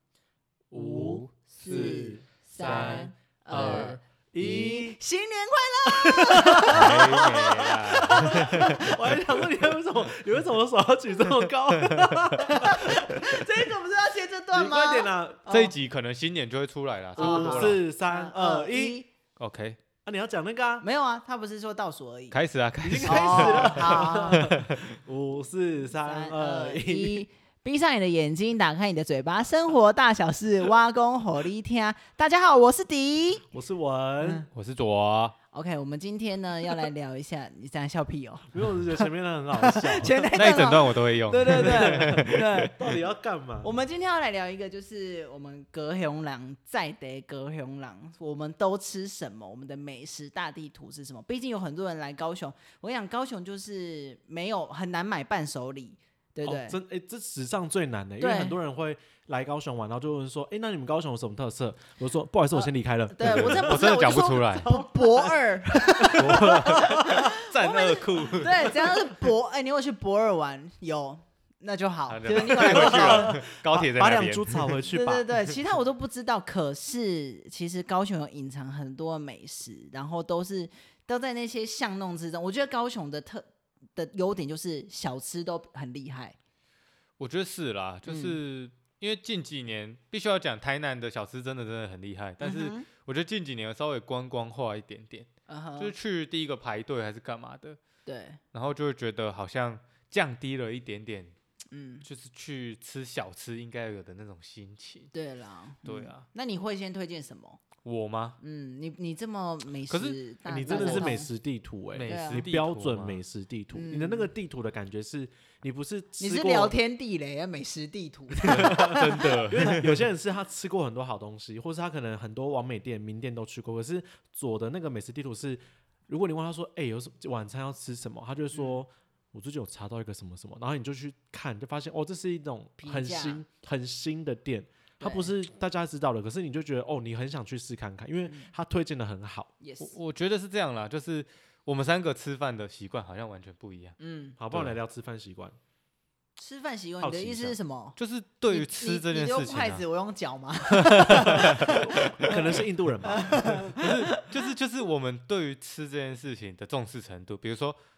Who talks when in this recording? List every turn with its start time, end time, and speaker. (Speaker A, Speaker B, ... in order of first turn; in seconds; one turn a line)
Speaker A: 0.7-5.0
Speaker B: 0.8-8.9
Speaker C: 0.8-4.0
Speaker A: 5.9-13.7
Speaker C: 6.7-9.1
Speaker C: 11.9-12.2
Speaker B: 12.4-15.7
Speaker A: 14.5-15.6
Speaker C: 15.5-17.8
Speaker A: 17.1-19.0
Speaker B: 17.2-19.1
Speaker C: 19.4-19.8
Speaker A: 20.0-20.8
Speaker B: 20.8-22.4
Speaker C: 22.3-24.8
Speaker A: 22.8-27.2
Speaker B: 23.0-24.4
Speaker B: 26.0-33.4
Speaker A: 33.5-34.5
Speaker B: 34.2-34.5
Speaker C: 34.5-35.3
Speaker B: 35.5-42.7
Speaker A: 38.5-40.7
Speaker C: 40.4-42.5
Speaker A: 41.5-43.7
Speaker B: 43.6-56.8
Speaker A: 56.4-63.9
Speaker B: 58.2-58.5
Speaker B: 62.5-73.4
Speaker C: 63.2-64.7
Speaker A: 64.6-67.3
Speaker C: 66.2-68.8
Speaker C: 72.1-74.8
Speaker A: 72.3-75.3
Speaker B: 74.9-86.3
Speaker C: 87.2-97.8
Speaker B: 88.0-88.4
Speaker B: 92.4-92.9
Speaker B: 95.5-95.9
Speaker B: 98.0-98.4
Speaker C: 98.5-101.3
Speaker B: 101.7-102.0
Speaker C: 102.0-105.1
Speaker B: 105.1-107.6
Speaker C: 105.8-106.2
Speaker C: 107.8-108.4
Speaker B: 108.4-111.3
Speaker C: 109.9-111.1
Speaker A: 110.5-116.8
Speaker C: 111.9-113.2
Speaker B: 112.1-112.5
Speaker B: 113.7-114.3
Speaker B: 116.2-119.4
Speaker A: 118.4-139.5
Speaker C: 118.5-120.0
Speaker B: 128.5-128.8
Speaker B: 132.8-133.4
Speaker B: 135.0-135.3
Speaker B: 138.2-138.5
Speaker B: 139.6-139.9
Speaker C: 139.8-144.0
Speaker B: 144.0-144.4
Speaker A: 144.4-145.6
Speaker C: 144.5-144.8
Speaker B: 146.3-148.0
Speaker A: 147.0-147.6
Speaker C: 148.0-149.8
Speaker B: 148.5-154.3
Speaker C: 150.8-152.3
Speaker A: 151.4-153.7
Speaker C: 153.8-157.8